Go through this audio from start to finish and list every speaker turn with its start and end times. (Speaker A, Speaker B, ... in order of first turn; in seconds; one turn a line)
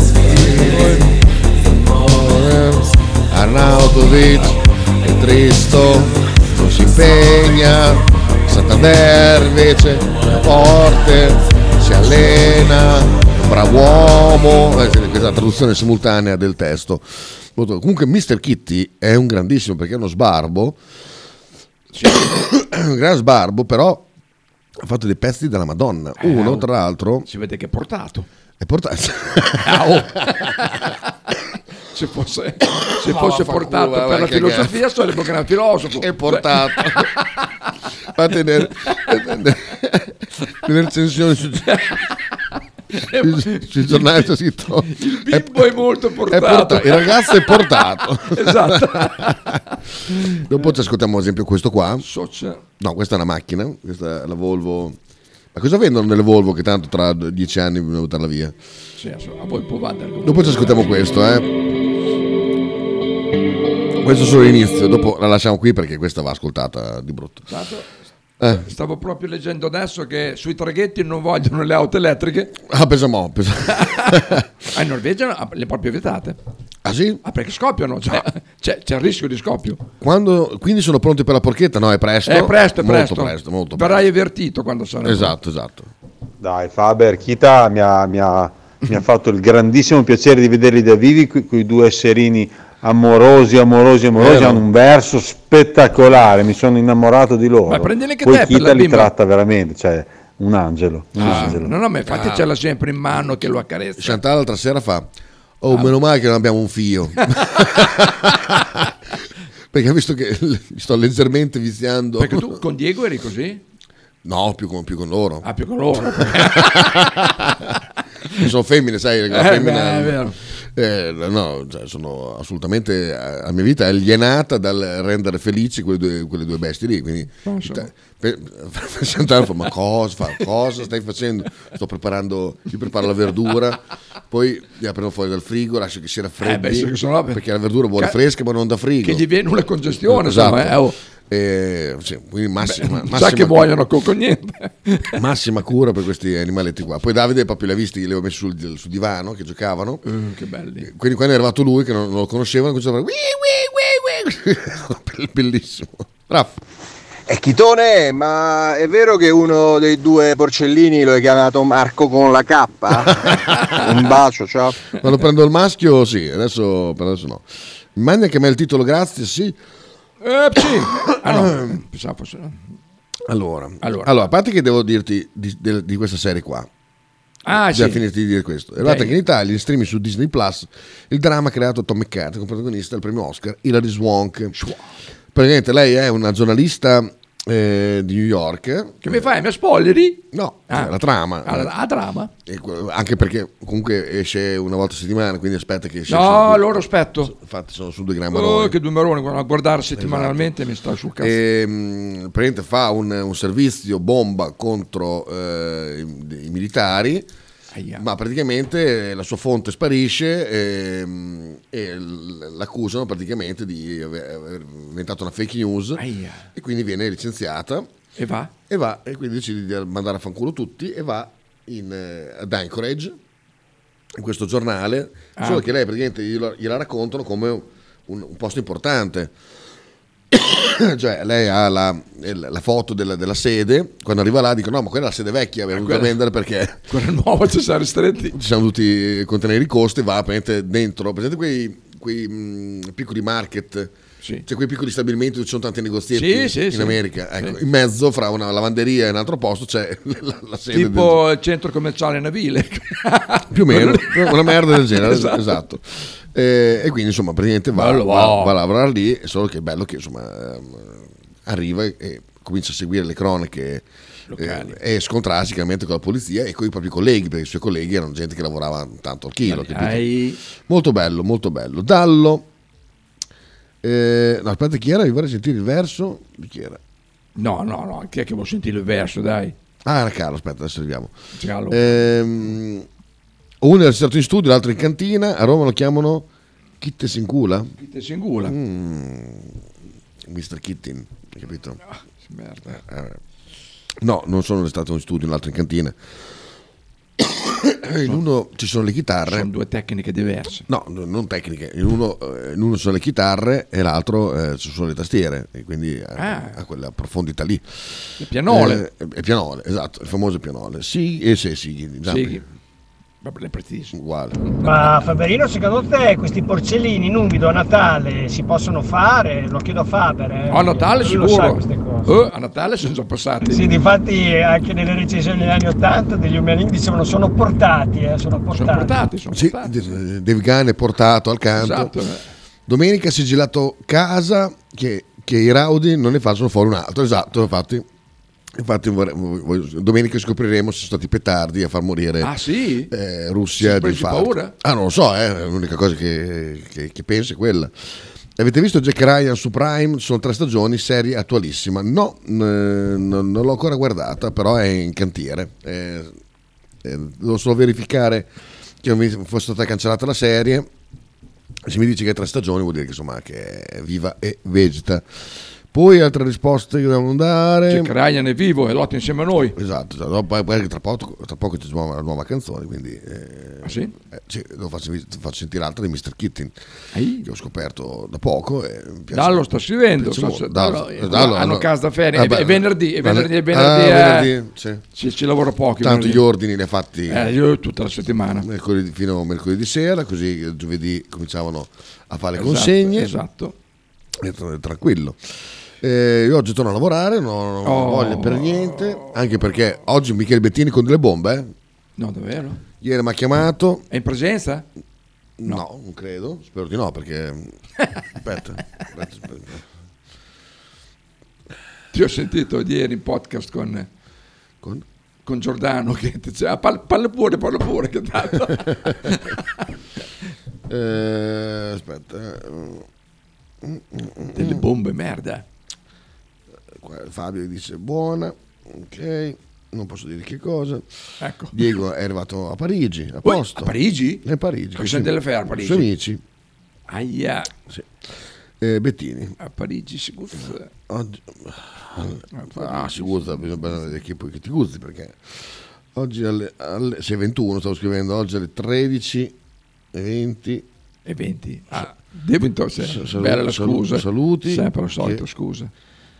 Speaker A: 0.1-1.1
Speaker B: 0.2-1.1
Speaker A: 1.8-20.8
Speaker B: 21.9-22.3
Speaker A: 22.1-24.1
Speaker A: 24.8-27.3
Speaker B: 26.2-26.7
Speaker B: 27.3-28.3
Speaker A: 28.6-30.1
Speaker B: 29.6-30.9
Speaker B: 31.9-37.2
Speaker A: 33.0-34.8
Speaker A: 35.9-37.1
Speaker A: 38.1-41.8
Speaker B: 41.7-42.1
Speaker B: 42.9-44.3
Speaker A: 43.1-49.6
Speaker B: 44.9-49.6
Speaker A: 50.1-52.0
Speaker B: 52.0-52.6
Speaker A: 52.8-55.0
Speaker A: 55.5-58.5
Speaker B: 59.0-61.0
Speaker A: 60.2-61.5
Speaker A: 64.0-67.5
Speaker B: 67.5-72.5
Speaker A: 72.6-74.5
Speaker B: 73.8-74.2
Speaker B: 74.7-76.4
Speaker A: 76.8-77.2
Speaker B: 77.2-79.8
Speaker A: 80.0-84.0
Speaker B: 82.3-85.3
Speaker A: 85.0-85.9
Speaker C: 86.4-101.7
Speaker A: 94.2-94.6
Speaker B: 97.7-99.1
Speaker B: 101.2-104.2
Speaker A: 101.2-102.5
Speaker A: 104.0-105.1
Speaker A: 105.6-108.8
Speaker A: 109.7-112.6
Speaker B: 112.2-113.6
Speaker A: 114.2-115.5
Speaker B: 115.5-116.9
Speaker A: 116.0-117.8
Speaker A: 118.4-139.2
Speaker B: 119.3-120.3
Speaker B: 127.5-127.9
Speaker B: 136.4-137.4
Speaker B: 139.0-140.9
Speaker A: 140.1-143.7
Speaker B: 142.6-145.1
Speaker A: 145.1-150.0
Speaker B: 150.1-150.9
Speaker A: 150.8-156.6
Speaker D: 157.3-164.7
Speaker A: 164.9-169.6
Speaker B: 170.2-172.6
Speaker A: 171.2-171.8
Speaker A: 173.3-176.7
Speaker B: 173.8-174.1
Speaker B: 177.4-178.0
Speaker A: 177.5-184.6
Speaker B: 178.8-179.2
Speaker A: 185.3-189.3
Speaker B: 189.0-190.9
Speaker A: 190.3-191.7
Speaker B: 191.4-192.3
Speaker A: 192.4-198.8
Speaker B: 196.1-197.3
Speaker B: 198.3-201.4
Speaker A: 199.9-200.5
Speaker A: 201.2-207.3
Speaker B: 207.7-208.0
Speaker A: 207.9-216.0
Speaker B: 216.0-216.5
Speaker A: 216.6-217.9
Speaker B: 218.2-218.5
Speaker A: 218.7-223.2
Speaker A: 224.2-229.3
Speaker B: 225.4-225.7
Speaker A: 230.3-236.8
Speaker B: 235.7-236.1
Speaker B: 236.9-238.3
Speaker A: 238.3-243.9
Speaker A: 244.4-251.2
Speaker B: 246.1-247.6
Speaker B: 250.7-255.6
Speaker A: 253.5-263.8
Speaker B: 257.7-258.6
Speaker B: 264.3-264.7
Speaker A: 264.4-270.1
Speaker B: 269.4-270.4
Speaker A: 270.7-272.4
Speaker A: 273.8-276.8
Speaker B: 277.4-279.5
Speaker A: 279.8-281.1
Speaker B: 281.4-282.0
Speaker A: 281.7-282.9
Speaker A: 283.6-286.3
Speaker A: 286.8-287.7
Speaker B: 287.8-288.6
Speaker A: 288.4-289.6
Speaker A: 290.3-291.8
Speaker B: 291.9-292.8
Speaker A: 292.7-293.2
Speaker A: 294.0-296.0
Speaker A: 297.2-299.5
Speaker B: 299.3-300.7
Speaker A: 300.7-307.9
Speaker B: 306.2-306.6
Speaker B: 308.2-308.8
Speaker A: 308.5-312.4
Speaker B: 312.1-312.4
Speaker B: 313.2-313.9
Speaker A: 313.9-314.4
Speaker E: 314.6-322.1
Speaker B: 320.5-323.8
Speaker E: 323.4-328.9
Speaker B: 328.5-329.8
Speaker A: 329.3-331.9
Speaker B: 331.6-332.3
Speaker A: 332.7-337.9
Speaker A: 338.6-342.3
Speaker B: 342.2-342.9
Speaker A: 342.9-347.7
Speaker B: 343.6-344.5
Speaker A: 348.4-356.2
Speaker A: 356.8-358.3
Speaker A: 358.8-360.7
Speaker A: 361.7-365.1
Speaker A: 365.7-367.9
Speaker B: 367.7-369.6
Speaker A: 369.6-376.6
Speaker B: 373.6-373.9
Speaker B: 376.9-377.3
Speaker A: 377.2-384.8
Speaker B: 379.1-384.3
Speaker B: 384.9-386.2
Speaker A: 385.8-387.3
Speaker B: 387.1-388.4
Speaker A: 388.4-393.1
Speaker B: 392.4-393.6
Speaker A: 394.2-395.2
Speaker A: 395.8-401.5
Speaker B: 397.6-399.1
Speaker B: 402.0-402.6
Speaker A: 402.8-403.8
Speaker B: 403.9-404.7
Speaker A: 405.4-407.5
Speaker A: 408.2-409.7
Speaker B: 411.9-413.9
Speaker B: 415.2-419.4
Speaker A: 420.7-422.9
Speaker A: 423.6-424.6
Speaker B: 424.3-425.4
Speaker A: 426.7-430.9
Speaker B: 431.2-431.7
Speaker A: 431.5-436.2
Speaker B: 433.2-434.2
Speaker B: 434.8-435.9
Speaker B: 436.9-437.5
Speaker A: 438.6-439.4
Speaker B: 439.4-440.7
Speaker A: 440.9-449.3
Speaker B: 442.3-443.7
Speaker A: 449.9-450.7
Speaker B: 451.1-455.7
Speaker A: 452.8-455.2